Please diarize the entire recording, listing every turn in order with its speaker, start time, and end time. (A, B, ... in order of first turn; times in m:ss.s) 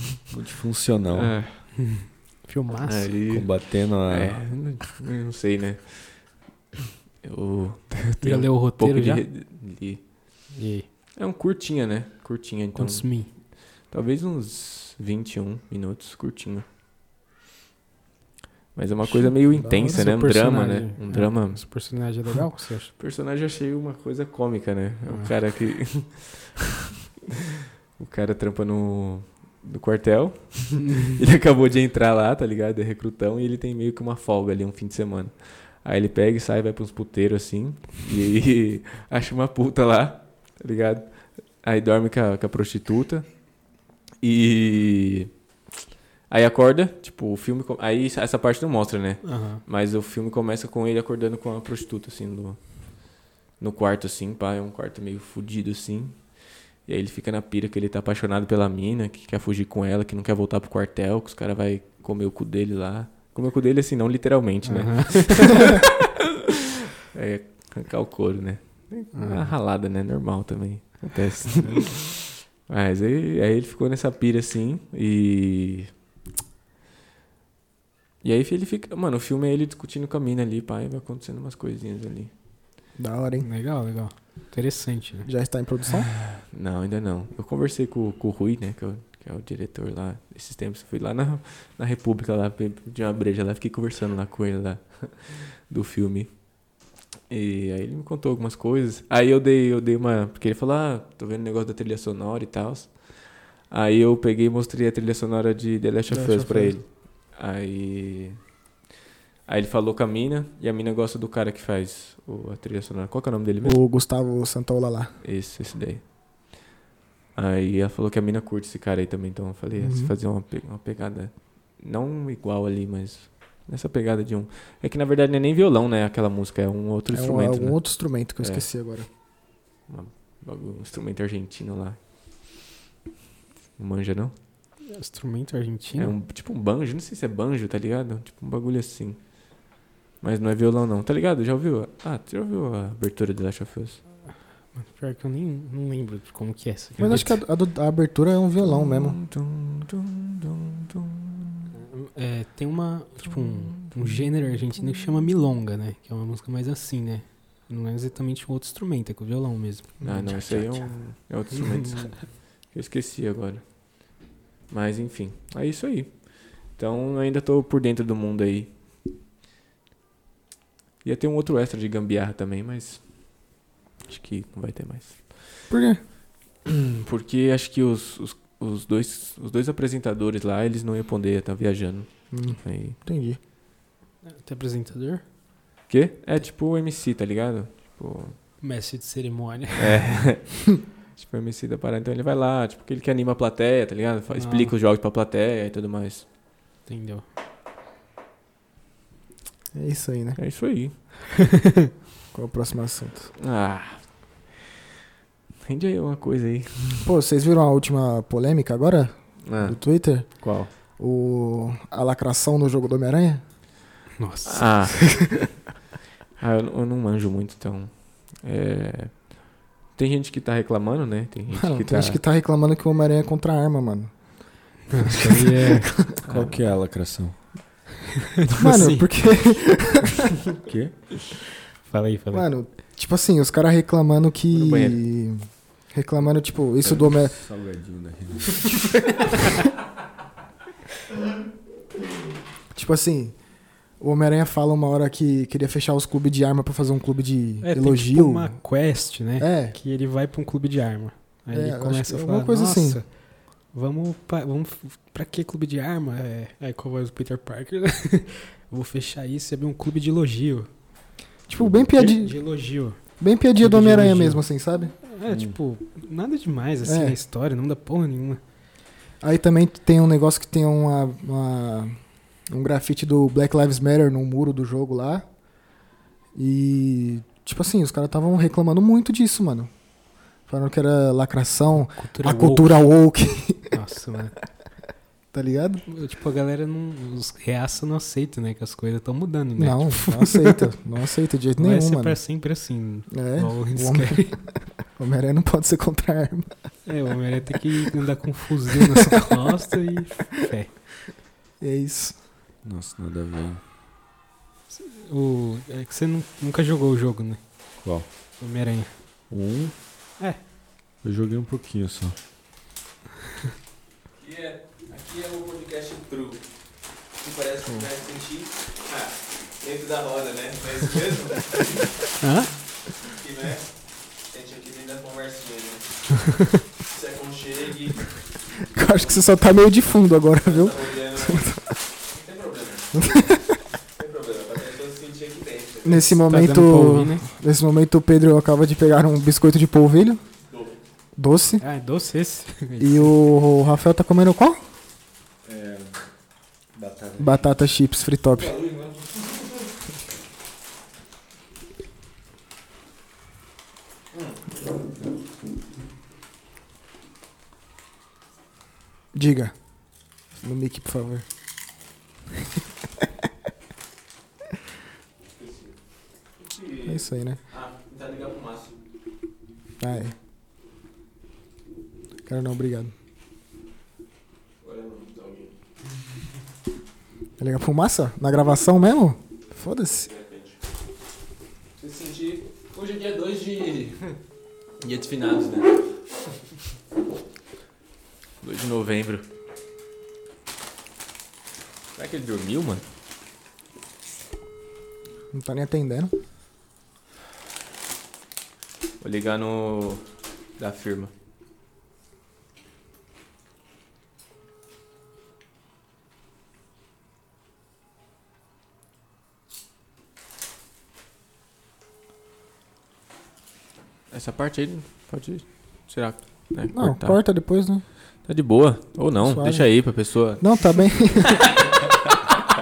0:00.3-0:01.4 A
0:01.1-0:01.9 B
0:01.8-0:03.1 C
0:02.8-0:06.4 B
0:03.3-0:04.6 A
0:07.2-0:10.4 B
0:08.2-0:09.2 C
0:10.5-0:10.9 C
0:11.2-0:16.6 B
0:12.8-0:13.3 C
0:18.7-0:21.9 B
0:19.0-0:20.0 D
0:19.9-0:22.9 C
0:23.0-0:26.6 B
0:28.0-0:43.6 B
0:44.2-0:45.3 B
0:46.3-1:06.0 B
0:49.2-0:49.6 C
1:04.6-1:05.6 C
1:07.0-1:15.9 B
1:09.1-1:09.5 C
1:11.6-1:11.8 C
1:18.2-1:22.3 B
1:23.0-1:23.5 D
1:23.4-1:25.3 C
1:25.2-1:26.1 D
1:26.3-1:36.8 B
1:37.3-1:48.4 B
1:46.1-1:46.8 D
1:49.5-1:53.8 B
1:53.6-1:55.2 D
1:55.2-1:56.0 B
1:57.4-2:08.7 B
1:59.8-2:00.1 D
2:07.1-2:09.1 D
2:09.9-2:12.0 B
2:13.8-2:14.4 B
2:14.9-2:16.1 C
2:16.0-2:19.5 B
2:20.2-2:24.0 B
2:24.7-2:27.4 C
2:27.0-2:29.2 D
2:28.6-2:31.7 B
2:31.7-2:40.0 C
2:33.7-2:34.0 B
2:40.0-2:40.9 D
2:40.0-2:48.8 B
2:41.7-2:42.1 C
2:51.0-2:55.6 B
2:55.7-2:56.0 D
2:56.7-3:03.0 B
3:02.3-3:03.4 D
3:04.2-3:05.2 C
3:05.9-3:08.4 B
3:08.6-3:10.1 C
3:09.8-3:16.3 B
3:14.3-3:14.7 C
3:16.9-3:17.2 C
3:19.7-3:20.4 D
3:20.4-3:21.0 B
3:22.3-3:23.3 D
3:23.4-3:24.2 B
3:25.6-3:27.0 B
3:27.0-3:33.4 D
3:29.4-3:30.7 B
3:34.2-3:35.0 C
3:34.4-3:35.4 B
3:36.4-3:42.2 B
3:41.5-3:46.1 D
3:44.9-3:45.9 C
3:46.2-3:46.6 B
3:46.3-3:47.4 A
3:48.6-3:50.2 D
3:48.6-3:49.1 C
3:50.6-3:51.0 A
3:51.8-3:52.5 C
3:52.3-3:57.4 D
3:54.5-3:55.0 B
3:56.9-3:58.8 A
4:02.7-4:09.8 D
4:07.6-4:20.7 C
4:11.5-4:13.0 D
4:21.5-4:24.9 D
4:21.6-4:21.9 A
4:21.9-4:23.0 C
4:23.6-4:24.5 C
4:25.0-4:28.4 C
4:25.3-4:25.6 A
4:26.8-4:27.2 D
4:29.2-4:35.3 D
4:36.4-4:39.7 D
4:40.4-4:43.7 D
4:42.0-4:42.7 C
4:43.7-4:44.4 C
4:45.3-4:45.8 D
4:45.9-4:50.5 C
4:49.6-4:52.2 D
4:51.6-4:54.3 C
4:53.1-4:56.7 D
4:56.9-5:00.7 C
5:01.6-5:02.2 D
5:02.6-5:03.6 A
5:04.7-5:07.4 C
5:07.8-5:08.1 A
5:08.4-5:08.9 C
5:09.3-5:09.7 A
5:11.0-5:12.2 A
5:14.2-5:16.4 B
5:17.2-5:21.9 B
5:22.2-5:22.5 C
5:23.0-5:26.2 B
5:26.9-5:28.2 B
5:28.7-5:31.7 D
5:30.4-5:31.5 B
5:32.1-5:32.9 B
5:32.9-5:33.6 D
5:34.0-5:36.1 B
5:35.8-5:40.2 D
5:36.3-5:37.3 C
5:41.2-5:41.6 D
5:41.6-5:43.1 C
5:42.8-5:44.6 D
5:45.4-5:46.0 A
5:46.7-5:47.6 A
5:47.2-5:48.6 D
5:48.4-5:49.4 B
5:59.1-6:01.3 D
6:05.4-6:05.7 B
6:06.4-6:08.7 B
6:06.8-6:07.4 D
6:09.8-6:10.1 D
6:12.3-6:12.9 D
6:14.6-6:15.5 B
6:17.4-6:20.1 D
6:20.1-6:20.5 B
6:21.8-6:24.2 B
6:24.8-6:25.9 B
6:28.4-6:29.2 B
6:32.0-6:32.8 B
6:35.3-6:36.1 D
6:39.0-6:40.0 B
6:40.6-6:41.1 B
6:54.1-6:57.2 B
6:56.7-6:57.8 D
6:58.2-7:01.8 B
6:59.2-7:01.4 D